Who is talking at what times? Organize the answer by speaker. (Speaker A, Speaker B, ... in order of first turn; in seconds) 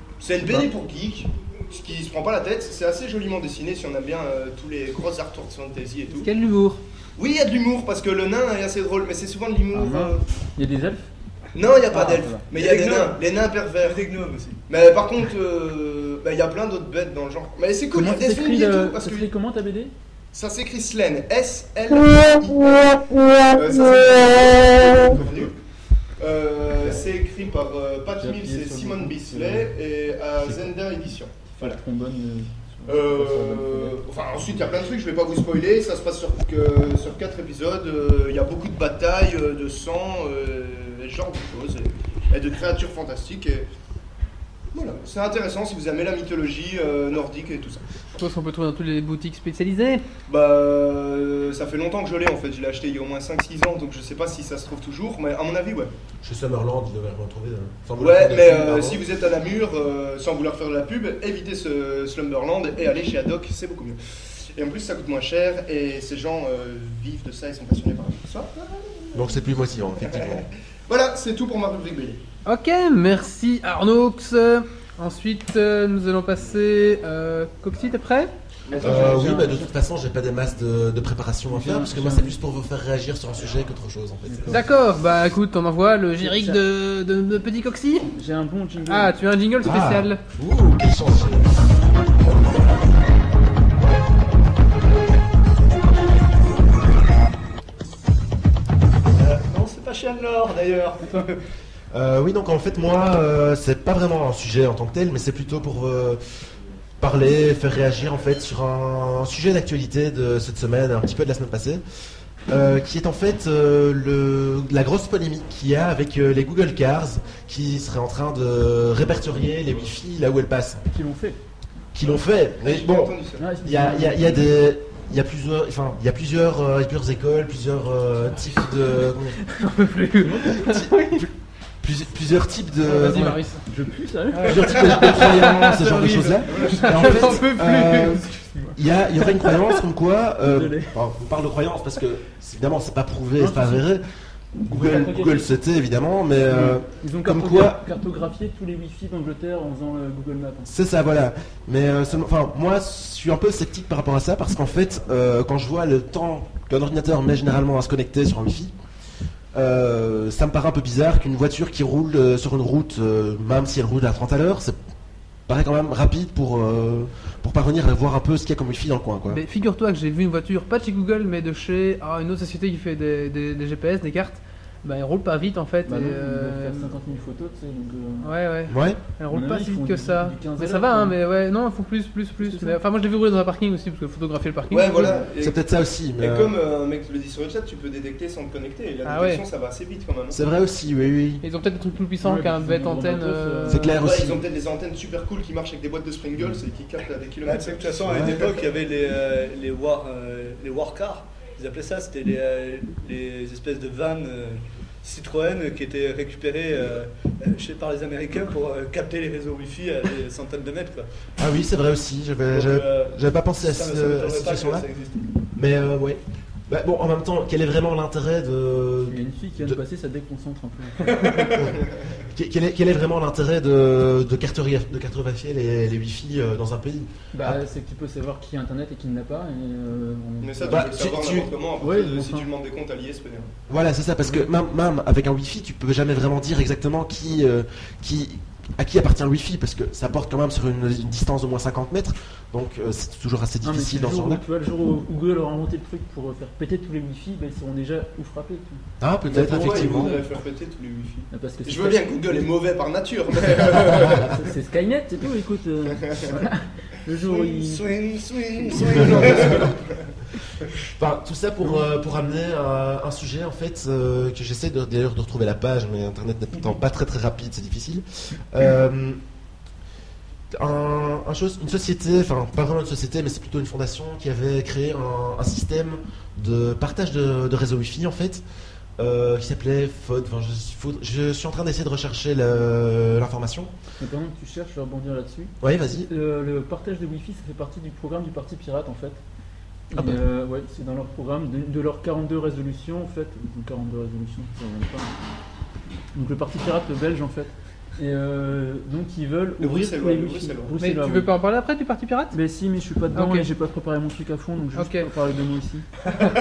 Speaker A: 0.2-6.3, 7.2-10.2, 11.6-14.0, 14.7-19.3, 20.3-25.6, 26.2-31.8, 32.9-43.7, 44.7-47.8, 50.3-55.9, 58.0-69.5, 70.0-72.2, 78.7-79.4, 122.1-123.5, 184.7-185.6, 186.2-190.4, 194.0-198.6, 230.4-233.5, 249.3-254.4, 256.1-256.4, 258.9-259.8, 299.6-300.8
Speaker B: 0.4-0.7, 9.7-11.1, 11.9-12.5, 17.9-19.9, 25.1-25.5, 28.2-29.7, 30.4-30.7, 31.6-34.0, 78.7-79.7, 81.5-82.3, 84.3-84.7, 86.2-86.6, 88.1-89.2, 120.9-121.4, 123.4-124.5, 133.7-135.2, 140.4-141.0, 143.4-143.8, 144.7-145.5, 146.5-150.7, 175.9-178.3, 179.3-181.2, 182.4-182.8, 192.2-194.0, 219.1-221.5, 227.3-231.0, 231.8-232.5, 243.6-250.3, 251.3-252.5, 254.0-257.9, 284.0-289.2, 289.9-295.1, 296.1-301.3, 302.3-305.9
Speaker C: 6.1-6.8, 48.1-50.0, 72.5-78.3, 84.5-88.1, 88.9-90.2, 129.4-131.3, 132.8-133.6, 134.3-138.5, 169.3-176.9, 178.2-185.2, 189.1-189.4, 191.4-193.9, 300.8-302.4, 303.1-303.5, 304.8-305.1
Speaker D: 12.5-13.2, 13.8-14.6, 99.2-101.4, 197.4-211.1, 212.5-215.3, 221.1-221.7, 257.2-259.7
Speaker E: 56.2-59.0, 69.1-70.5, 78.8-84.6, 89.6-91.5, 101.9-106.2, 107.0-111.8, 112.5-120.8, 121.9-129.4, 130.4-131.3, 131.8-133.4, 134.5-144.0, 144.6-147.8, 150.7-158.7, 159.5-164.8, 165.5-169.4, 178.7-179.0, 185.4-186.6, 190.3-191.4, 193.7-194.4, 198.1-198.4, 211.4-214.9, 215.6-219.8, 222.3-227.6, 230.7-231.5, 233.7-244.4, 249.0-250.2, 258.9-259.7, 261.0-269.2, 270.5-278.4, 279.0-283.7, 285.6-286.1, 289.9-290.2